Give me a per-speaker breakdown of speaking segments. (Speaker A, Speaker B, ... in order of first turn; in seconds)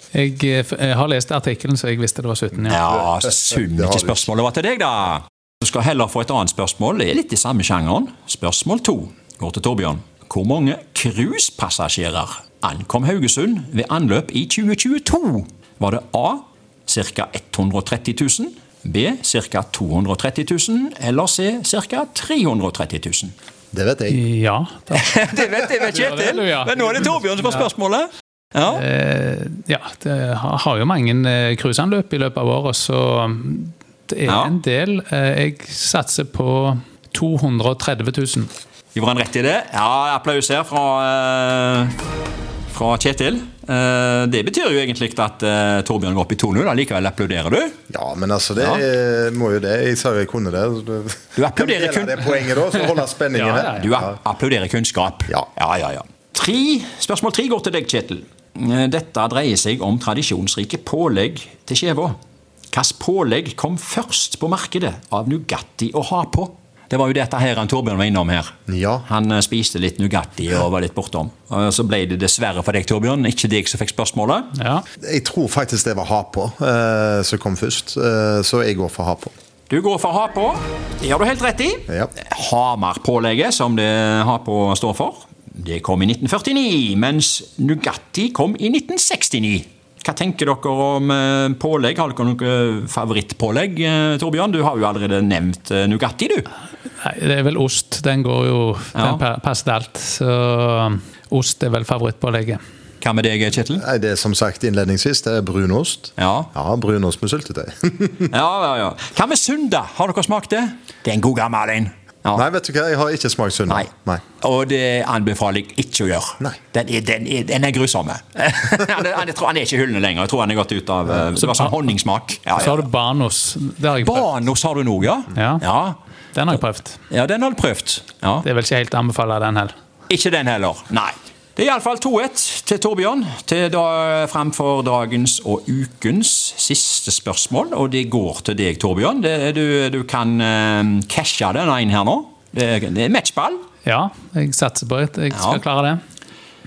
Speaker A: 0.1-2.8, 24.1-27.7, 28.7-38.5, 53.3-53.9, 74.5-74.8, 97.0-102.6, 121.4-121.8, 122.5-124.3, 125.3-125.6, 126.3-127.0, 128.4-129.7, 143.8-146.0
Speaker B: 2.7-23.3, 24.9-28.8, 34.2-34.5, 38.9-41.9, 42.7-47.8, 48.6-48.8, 51.4-52.7, 53.8-62.1, 62.7-68.5, 69.0-74.5, 79.7-96.5, 98.9-99.2, 103.0-103.8, 106.2-106.5, 108.3-112.4, 114.4-122.8, 124.0-126.0, 127.1-128.4, 130.1-143.6, 145.3-145.6
Speaker C: 2.9-4.3, 23.7-24.2, 47.9-54.1, 68.7-69.0, 75.0-79.3, 103.8-108.3, 112.3-114.2